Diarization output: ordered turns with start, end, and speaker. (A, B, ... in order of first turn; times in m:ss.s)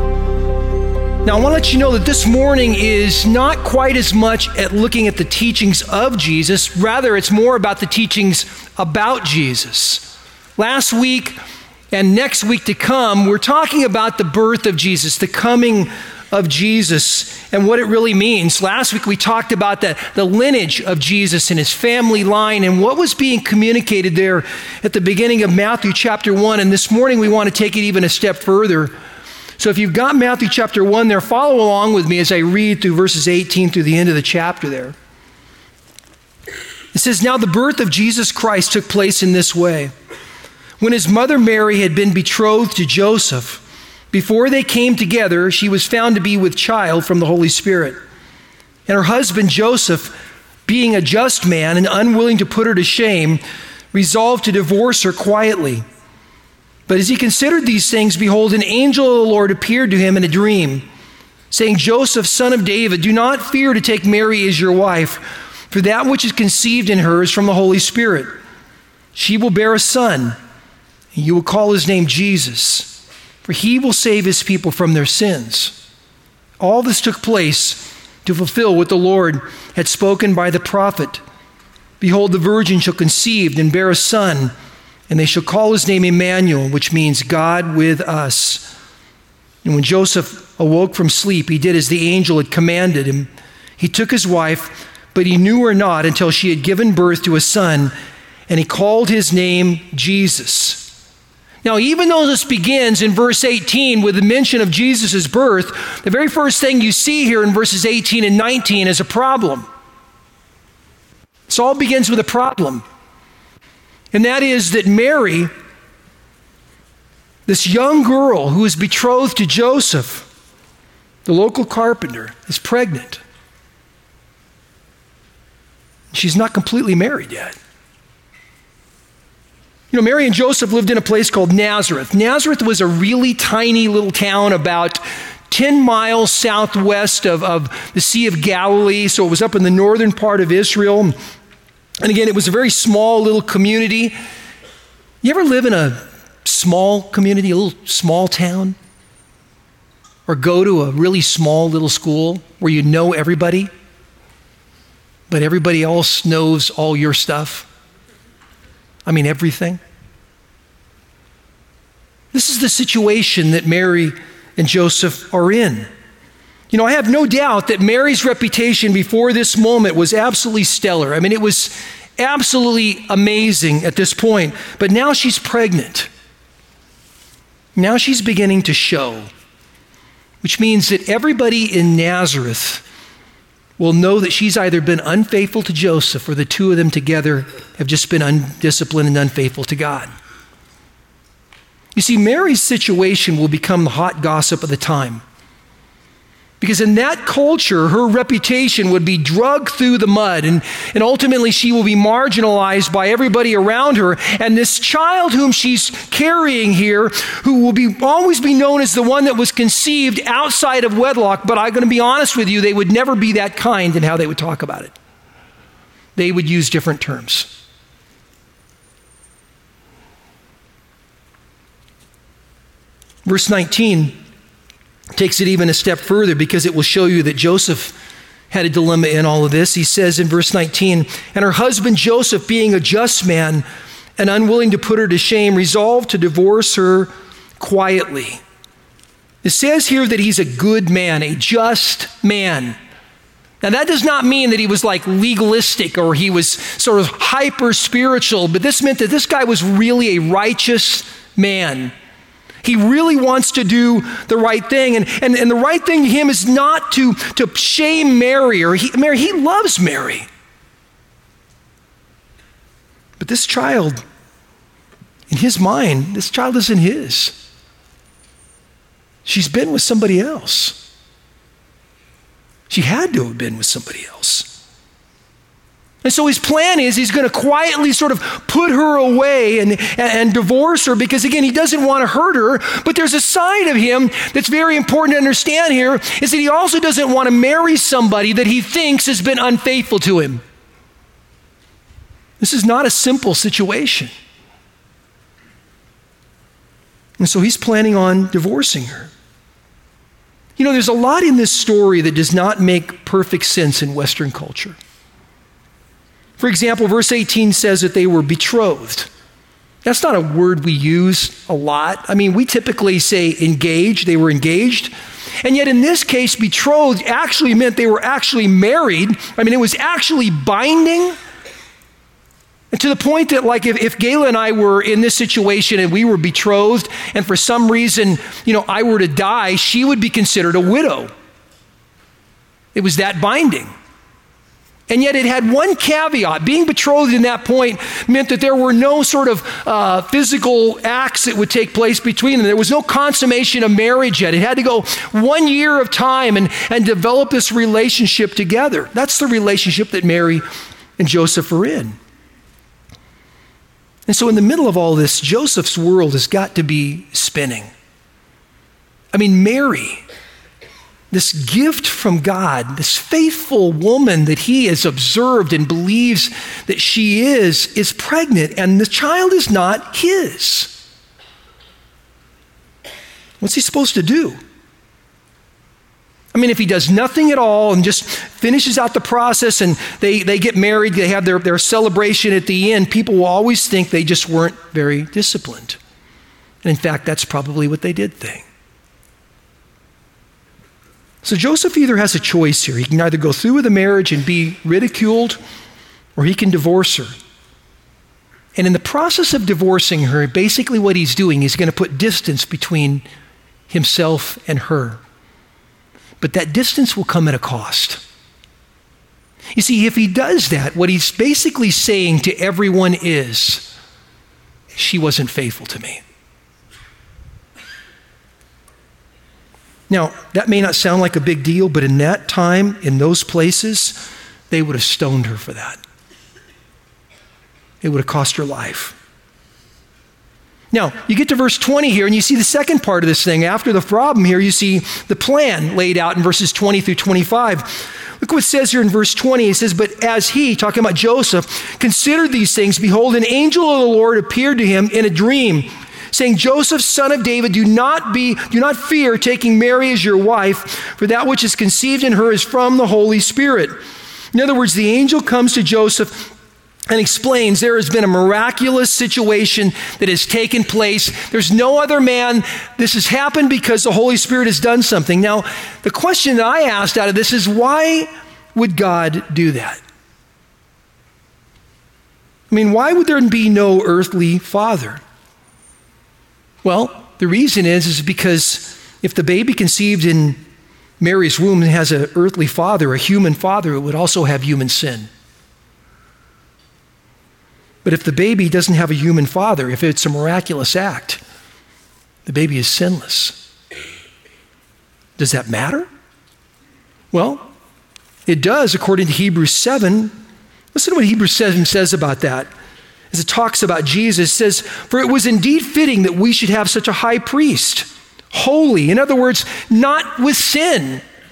0:01.2-0:11.4 A
0:11.9-0:28.9 A
0:29.6-0:35.0 A
0:36.9-0:39.9 A
0:40.8-0:48.0 A
0:48.9-0:53.4 A
0:53.9-0:55.8 A
0:56.9-1:00.8 A
1:01.5-1:08.3 A
1:09.1-1:10.4 A
1:11.1-1:15.8 A
1:16.6-1:21.2 A
1:22.0-1:24.5 A
1:25.1-1:28.7 A
1:29.6-1:37.9 A
1:38.5-1:40.9 A
1:41.6-1:49.6 A
1:51.5-1:52.8 A
1:54.1-1:55.5 A
1:57.5-2:00.3 A
2:01.2-2:03.2 A
2:06.1-2:07.5 A
2:09.9-2:21.1 A
2:22.0-2:24.2 A
2:25.2-2:28.8 A
2:30.3-2:33.7 A
2:35.3-2:37.7 A
2:39.0-2:39.8 A
2:42.3-2:45.9 A
2:46.7-2:56.1 A
2:57.8-2:59.3 A
3:00.4-3:02.8 A
3:03.8-3:10.1 A
3:11.9-3:15.2 A
3:16.6-3:34.9 A
3:36.2-3:37.5 A
3:43.2-3:44.2 A
3:45.1-3:47.9 A
3:48.5-3:53.6 A
3:54.2-3:58.4 A
3:59.4-4:02.8 A
4:03.6-4:11.9 A
4:12.6-4:20.3 A
4:23.2-4:24.0 A
4:25.3-4:27.4 A
4:29.2-4:30.8 A
4:32.7-4:34.5 A
4:36.0-4:50.4 A
4:52.4-4:54.1 A
4:57.2-4:59.1 A
5:00.6-5:04.8 A
5:06.4-5:09.1 A
5:09.8-5:21.2 A
5:22.7-5:31.1 A
5:32.7-5:33.7 A
5:34.9-5:50.4 A
5:51.0-5:52.0 A
5:54.1-5:57.7 A
5:59.1-6:00.0 A
6:01.1-6:10.8 A
6:13.4-6:14.4 A
6:16.3-6:25.8 A
6:26.6-6:28.4 A
6:31.2-6:35.4 A
6:36.2-6:37.2 A
6:38.6-6:43.0 A
6:43.7-6:45.0 A
6:46.2-6:48.0 A
6:49.5-6:53.7 A
6:54.7-6:56.0 A
6:59.9-7:05.8 A
7:07.8-7:09.0 A
7:10.7-7:33.7 A
7:34.3-7:36.3 A
7:36.9-7:49.8 A
7:52.5-7:55.0 A
7:56.6-8:00.4 A
8:01.0-8:05.1 A
8:07.8-8:11.2 A
8:12.2-8:13.4 A
8:15.2-8:15.9 A
8:17.1-8:17.5 A
8:18.3-8:20.1 A
8:20.7-8:22.5 A
8:23.1-8:31.0 A